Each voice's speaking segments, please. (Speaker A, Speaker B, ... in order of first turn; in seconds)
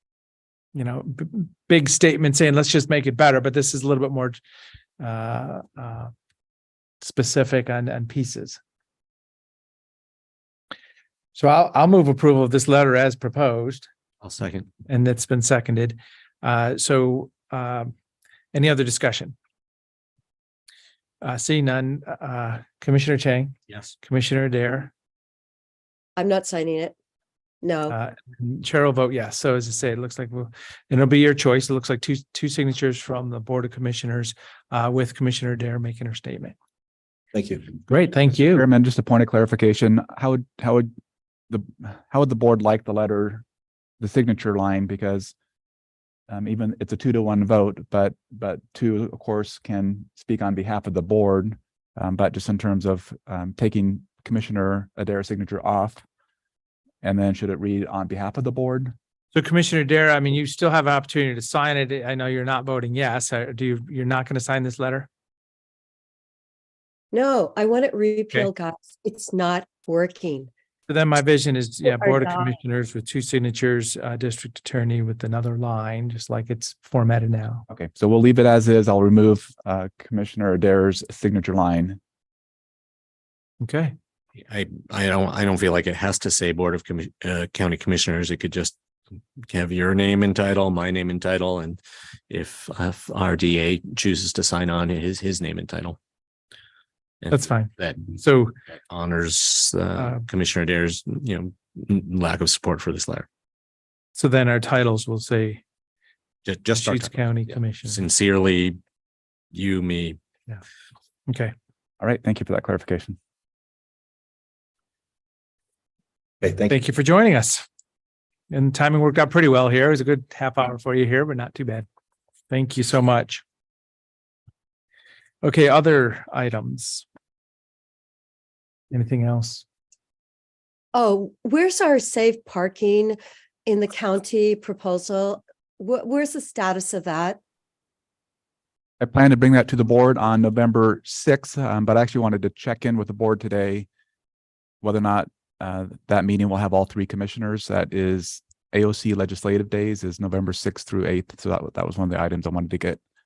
Speaker A: 0.7-4.4, 5.0-6.1, 7.0-8.6, 11.3-13.9, 14.9-17.9, 18.5-19.3, 21.2-24.9, 27.9-36.5, 37.9-38.6, 59.3-65.1, 70.9-77.7, 83.6-83.9, 97.3-98.5, 100.0-100.2, 104.1-105.6, 106.8-108.0, 111.3-111.5, 116.7-117.7, 118.5-121.9, 122.5-123.4, 125.4-127.0, 128.9-129.6
Speaker B: 14.2-14.7, 37.3-37.6, 84.4-88.8, 89.5-96.0, 97.2-98.1, 98.9-103.3, 106.4-108.8, 109.5-110.2, 116.4-116.7
Speaker C: 26.1-26.9, 27.6-27.9, 67.1-70.5, 71.8-72.5, 130.9-137.4
Speaker D: 38.5-40.9, 41.5-43.4, 44.0-45.3, 46.3-56.0, 57.0-58.9, 77.7-82.0, 112.0-113.2, 139.0-143.9, 144.8-153.0